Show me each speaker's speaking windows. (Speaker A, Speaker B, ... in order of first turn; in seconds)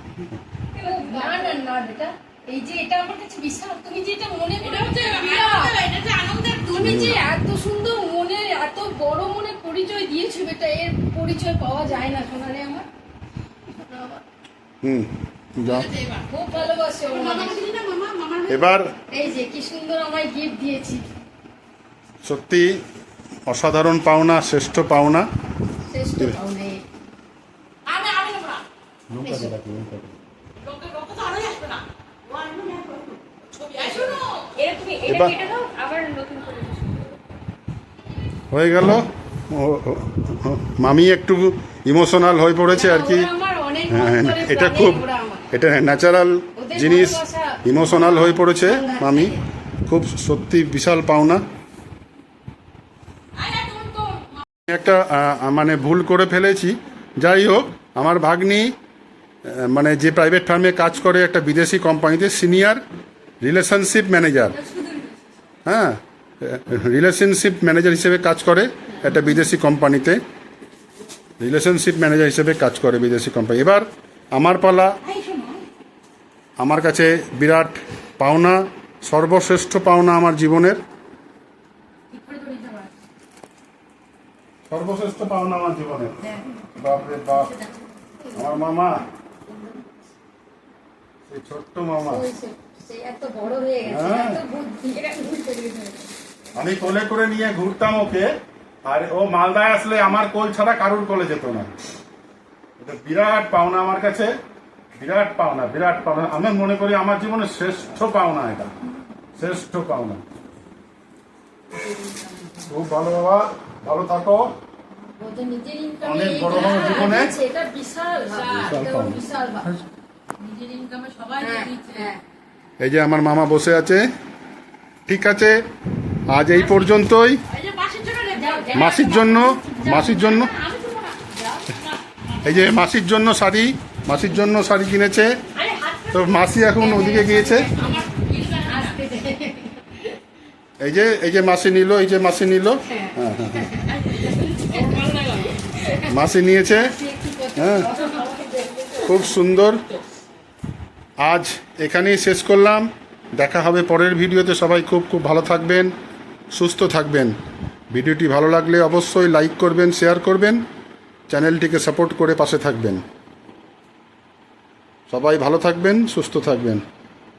Speaker A: 0.7-5.8, 6.7-12.8, 13.7-14.2, 16.2-17.6, 19.0-21.1, 25.9-26.8, 29.2-29.5, 32.5-33.0, 33.9-37.1, 42.7-45.5, 46.5-49.4, 64.6-65.1, 88.2-88.5, 89.5-89.9, 92.0-96.1, 115.0-119.8, 121.4-122.2, 128.4-131.6, 136.8-140.0, 143.0-143.9, 146.4-149.3
Speaker B: 1.0-1.3, 4.6-7.0, 15.7-16.1, 17.1-18.5, 27.9-28.6, 30.6-31.8, 33.5-34.3, 53.4-54.2, 75.0-75.6, 82.1-82.9, 118.3-118.8, 120.4-122.1, 127.5-131.1, 135.6-138.9, 143.9-145.9
Speaker C: 6.8-7.2, 14.8-15.9, 18.5-18.9, 22.2-22.8, 23.5-25.3, 29.1-30.1, 35.1-35.3, 38.5-43.3, 43.9-51.4, 54.6-58.7, 59.4-62.8, 63.4-64.6, 65.7-70.2, 71.4-75.0, 76.6-80.8, 84.7-86.2, 86.7-87.5, 88.3-89.0, 91.3-92.2, 93.8-94.4, 96.5-98.3, 98.8-101.7, 102.8-104.3, 105.0-108.7, 109.4-110.2, 112.6-114.5, 116.0-117.3, 118.5-119.2, 122.8-124.1, 125.1-125.7, 126.3-127.4, 128.7-130.5, 132.4-135.4, 136.1-137.7, 140.8-143.8, 146.0-146.9, 147.5-147.9, 148.9-149.8, 151.2-155.9, 156.5-157.3, 157.9-160.6, 161.3-163.0, 165.1-166.8